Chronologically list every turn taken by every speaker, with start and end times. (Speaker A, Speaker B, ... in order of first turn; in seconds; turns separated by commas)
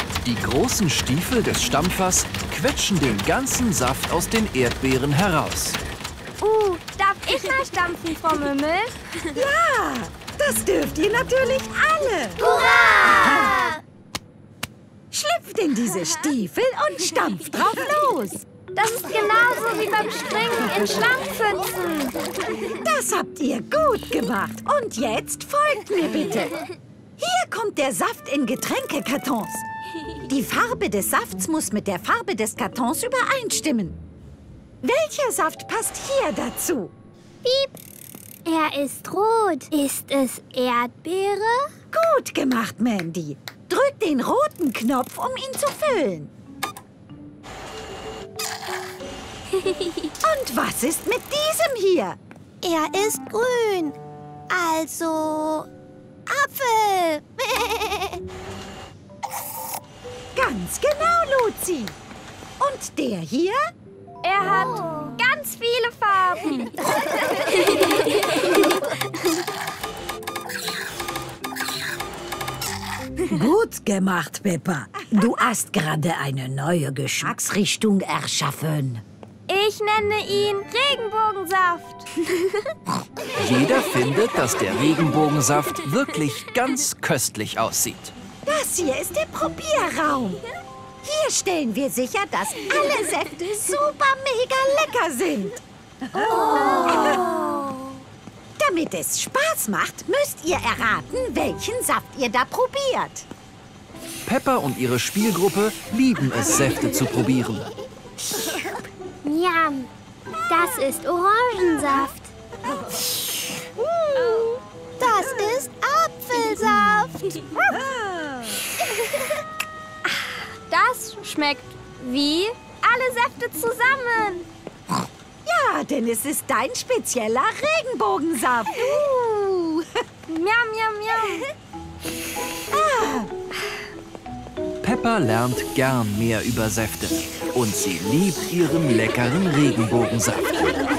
Speaker A: 0.2-5.8, Speaker B: 6.4-9.0, Speaker C: 9.3-12.5, Speaker D: 12.4-13.8, Speaker C: 13.0-13.6, Speaker C: 15.1-18.5, Speaker B: 18.8-22.2, Speaker C: 22.7-26.6, Speaker C: 27.2-29.6, Speaker C: 30.3-34.0, Speaker C: 34.8-36.9, Speaker E: 37.4-37.7, Speaker E: 38.5-41.5, Speaker C: 41.9-46.3, Speaker C: 50.2-52.2, Speaker D: 52.6-54.0, Speaker D: 54.5-55.7, Speaker D: 56.3-58.2, Speaker C: 60.4-62.0, Speaker C: 62.6-63.7, Speaker B: 64.2-66.9, Speaker E: 64.5-65.1, Speaker B: 67.6-68.0, Speaker C: 73.2-79.0, Speaker B: 79.5-82.1, Speaker A: 83.3-88.1, Speaker C: 88.5-90.4, Speaker C: 91.0-97.3, Speaker C: 98.6-103.3, Speaker A: 104.3-107.7, Speaker E: 109.2-109.9, Speaker E: 110.5-112.2, Speaker D: 113.8-117.5, Speaker C: 117.7-118.7, Speaker B: 120.1-124.5, Speaker C: 125.5-129.8, Speaker B: 130.3-131.5, Speaker C: 132.7-133.3, Speaker A: 134.8-140.7